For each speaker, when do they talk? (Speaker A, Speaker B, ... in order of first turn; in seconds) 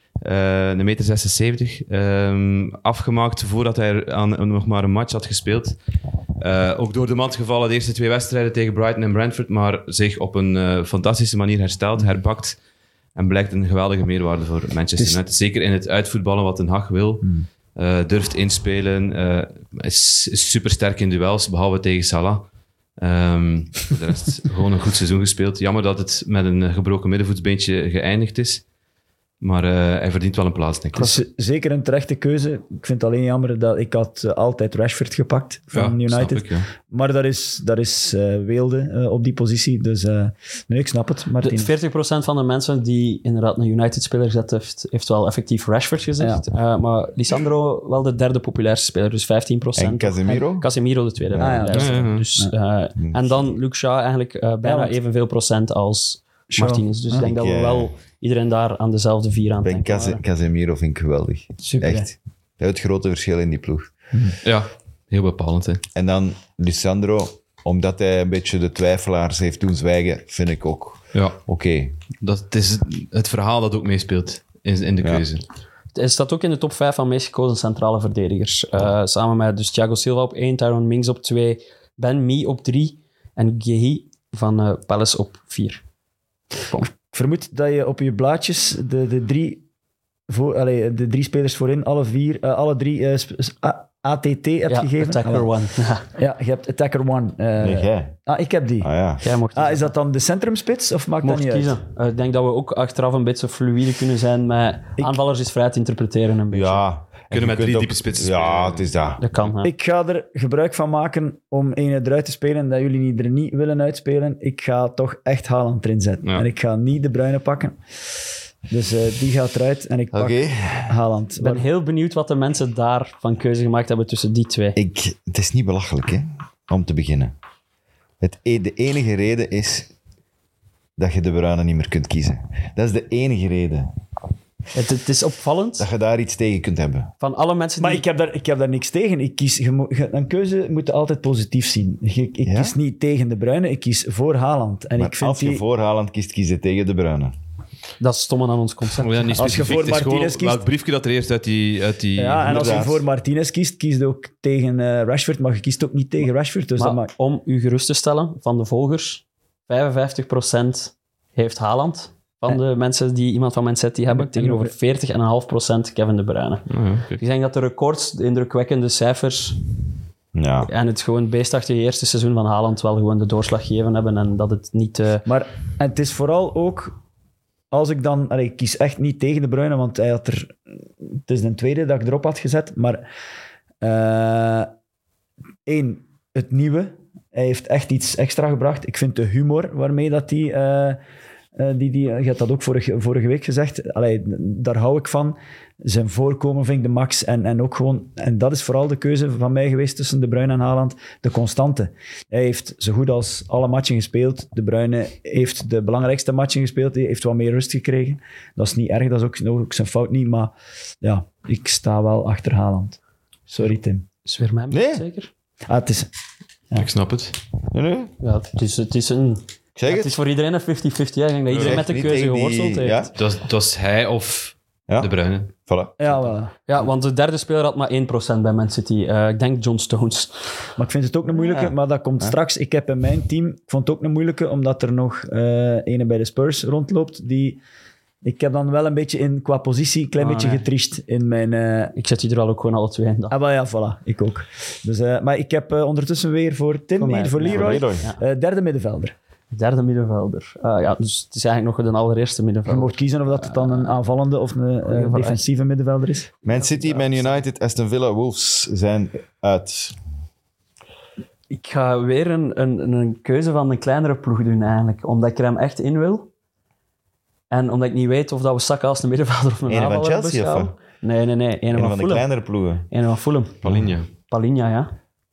Speaker A: 0.2-5.8, 6.4-12.6, 13.2-22.5, 23.0-28.6, 29.4-31.2, 35.7-36.7, 51.7-52.2, 64.4-65.8, 72.2-75.4, 107.3-108.9, 149.0-152.6, 166.7-167.2, 216.7-217.4, 221.5-221.8, 223.2-225.5, 273.6-274.1
Speaker B: 30.9-41.7, 51.4-52.5, 54.6-55.0, 56.5-57.3, 61.6-62.1, 86.8-89.6, 90.3-95.5, 96.2-98.9, 99.5-101.8, 109.6-117.8, 118.7-121.7, 137.8-145.6, 149.4-150.6, 152.2-157.1, 164.1-164.7, 175.3-177.0, 177.7-183.1, 183.8-184.7, 185.7-191.0, 191.6-213.0, 213.5-214.1, 215.7-216.1, 226.0-226.5, 230.8-237.6, 238.2-241.9, 243.3-249.1, 252.7-256.3
Speaker C: 41.4-60.2, 76.0-85.8, 94.7-96.1, 99.2-99.9, 101.2-106.8, 109.2-109.7, 121.4-124.8, 134.7-135.9, 137.2-138.0, 148.0-149.4, 156.8-169.6, 170.7-175.3, 214.2-215.3, 218.2-223.1, 226.7-230.4, 240.2-240.6, 241.9-243.3, 247.0-248.2, 249.5-253.9, 254.9-255.4, 256.5-257.4, 261.5-266.3, 267.5-272.3, 272.9-273.6, 274.3-274.9
Speaker D: 49.8-50.7, 51.3-51.7, 53.0-53.5, 57.1-57.9, 59.6-63.9, 65.9-72.0, 97.6-98.2, 98.8-99.2, 106.5-109.2, 120.1-121.0, 124.8-127.3, 128.2-129.9, 131.0-133.9, 135.8-137.1, 142.4-142.8, 144.9-147.3, 152.4-153.1, 170.3-170.7, 214.7-215.0, 217.7-218.1, 219.8-220.2, 221.6-223.1, 225.7-226.3, 231.3-232.4, 247.5-248.1, 256.4-260.0, 269.7-270.7, 271.7-272.9